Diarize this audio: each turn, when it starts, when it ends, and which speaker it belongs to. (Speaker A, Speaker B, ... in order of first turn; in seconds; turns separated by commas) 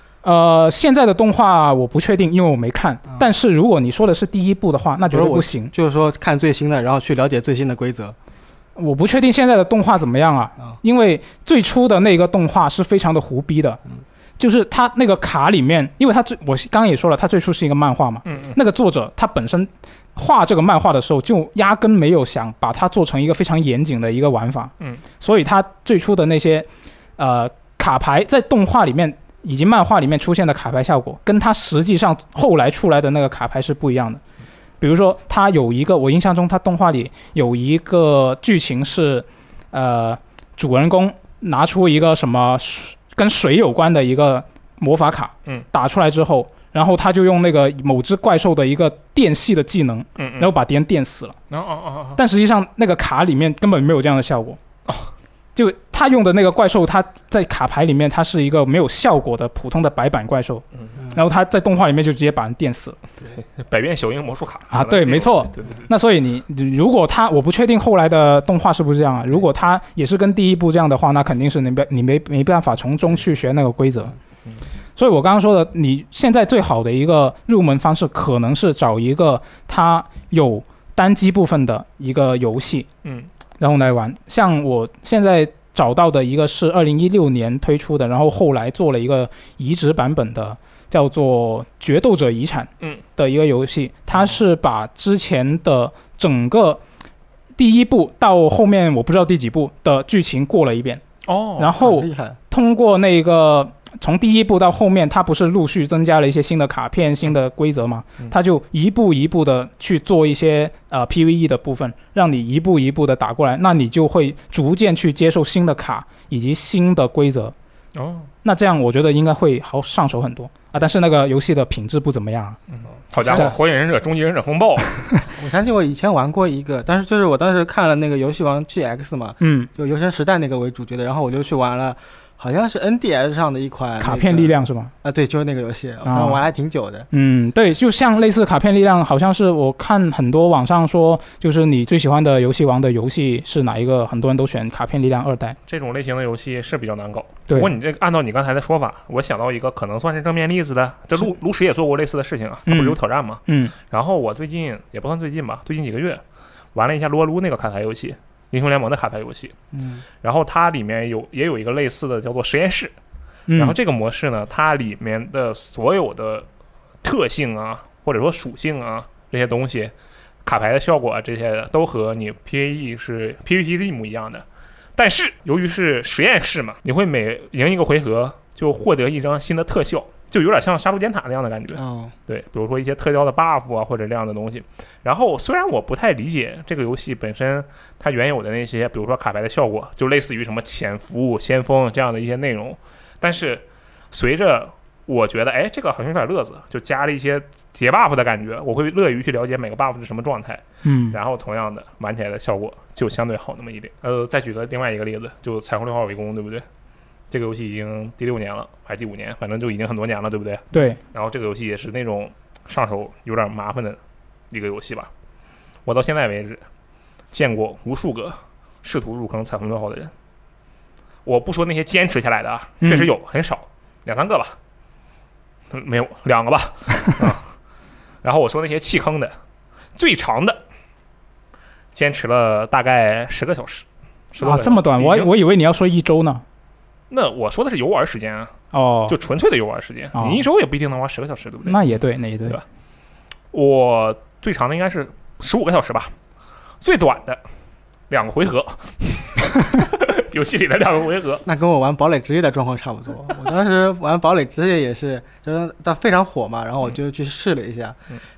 Speaker A: 0.2-5.7, Speaker B: 5.1-8.2, Speaker A: 8.8-13.8, Speaker A: 14.4-34.2, Speaker C: 18.2-18.6, Speaker A: 34.8-51.4, Speaker C: 50.2-50.5, Speaker C: 51.5-52.2, Speaker A: 52.2-54.6, Speaker C: 54.9-55.1, Speaker A: 55.6-63.0, Speaker C: 63.3-65.9, Speaker A: 64.7-74.2, Speaker A: 75.0-82.9, Speaker C: 83.0-83.3, Speaker A: 83.6-96.8, Speaker A: 97.6-101.0, Speaker C: 101.2-101.8, Speaker A: 101.6-117.5, Speaker B: 101.8-102.4, Speaker C: 117.9-118.3, Speaker A: 118.4-122.6, Speaker C: 122.7-125.1, Speaker B: 123.2-123.5, Speaker B: 125.4-137.1, Speaker A: 129.4-129.7, Speaker A: 134.0-134.9, Speaker A: 136.1-136.4, Speaker A: 137.1-145.6, Speaker C: 145.7-156.2, Speaker A: 152.7-153.7, Speaker C: 156.8-159.5, Speaker B: 159.7-160.0, Speaker C: 160.2-162.9, Speaker A: 163.5-163.8, Speaker C: 163.6-166.5, Speaker C: 167.0-169.9, Speaker C: 170.4-174.4, Speaker C: 175.0-206.7, Speaker B: 181.8-182.1, Speaker A: 200.8-201.2, Speaker C: 207.3-214.0, Speaker A: 210.7-211.0, Speaker C: 214.5-215.1, Speaker C: 215.9-216.6, Speaker C: 217.3-220.1, Speaker C: 221.2-224.6, Speaker A: 222.8-223.1, Speaker C: 225.7-227.5, Speaker C: 228.2-229.3, Speaker C: 229.9-230.6, Speaker C: 231.9-235.3, Speaker A: 234.4-236.4, Speaker C: 237.1-238.5, Speaker A: 238.7-239.2, Speaker C: 239.1-242.6, Speaker A: 240.1-240.4, Speaker A: 241.7-242.6, Speaker C: 243.5-246.1, Speaker C: 246.8-247.4, Speaker C: 248.1-251.4, Speaker B: 251.4-258.0